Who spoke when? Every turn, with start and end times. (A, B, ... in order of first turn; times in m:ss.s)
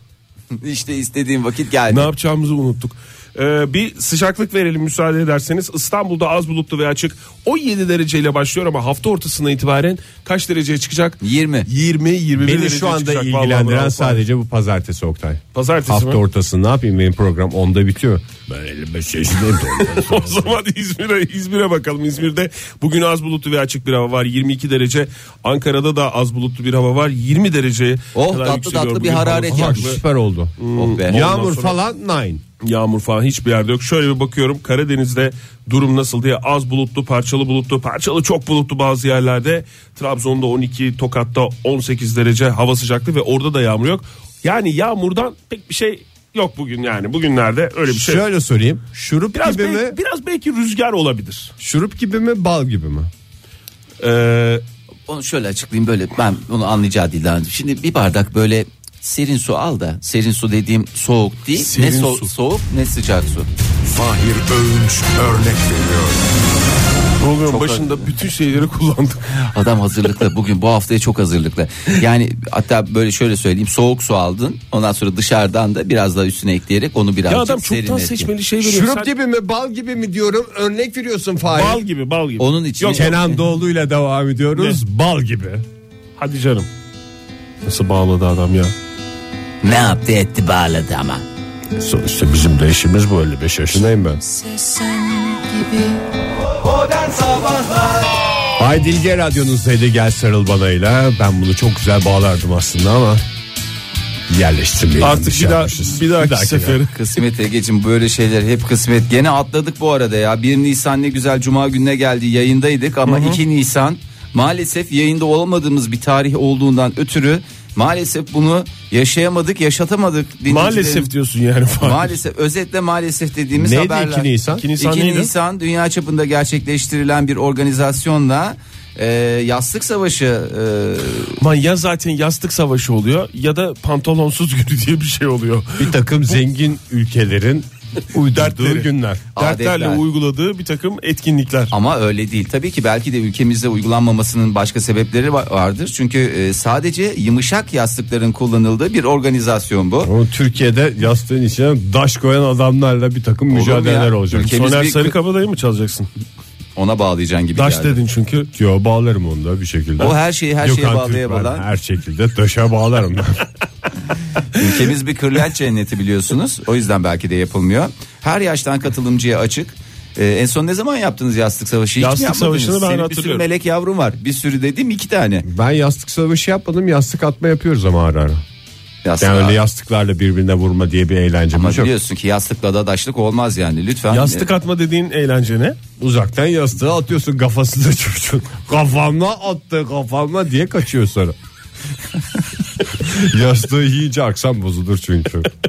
0:00.5-0:02.1 A
0:01.9-0:14.2 B
0:11.2-0:11.7 A
0:12.4-0:20.6 C
0:15.5-0:16.2 B
0:19.8-0:30.0 B
0:28.1-0:30.0 A
0:29.5-0:32.4 C
0:30.6-0:31.8 B
0:30.7-0:31.3 A
0:32.6-0:48.2 B
0:47.9-0:50.0 C
0:49.3-0:51.5 B
0:51.6-0:53.1 C
0:54.0-0:54.6 B
0:55.1-1:03.5 A
1:01.5-1:02.3 B
1:04.4-1:05.2 B
1:07.2-1:09.4 B
1:07.5-1:08.1 A
1:09.4-1:18.3 A
1:17.3-1:19.1 B
1:18.6-1:21.8 C
1:21.5-1:23.2 B
1:22.4-1:23.4 A
1:22.9-1:25.6 C
1:26.2-1:26.7 B
1:27.6-1:28.7 B
1:29.6-1:31.2 A
1:31.8-1:34.2 C
1:38.6-1:43.2 C
1:44.3-1:46.8 C
1:45.0-1:46.9 B
1:46.9-2:01.1 A
1:53.0-1:53.4 B
2:00.5-2:02.2 B
2:01.8-2:11.4 A
2:03.6-2:04.6 C
2:04.5-2:05.3 B
2:11.4-2:16.4 B
2:15.8-2:19.2 C
2:18.3-2:21.7 B
2:19.4-2:20.0 A
2:21.7-2:30.1 A
2:30.0-2:34.5 C
2:33.5-2:35.2 A
2:34.3-2:36.1 B
2:36.8-2:38.0 A
2:37.6-2:38.5 B
2:38.5-2:43.5 C
2:40.0-2:41.6 A
2:44.5-2:55.4 A
2:52.0-2:53.4 B
2:55.4-2:58.4 C
2:59.0-2:59.6 A
2:59.2-3:01.9 C
3:01.5-3:04.5 A
3:04.1-3:05.8 B
3:06.0-3:11.4 C
3:13.0-3:15.5 C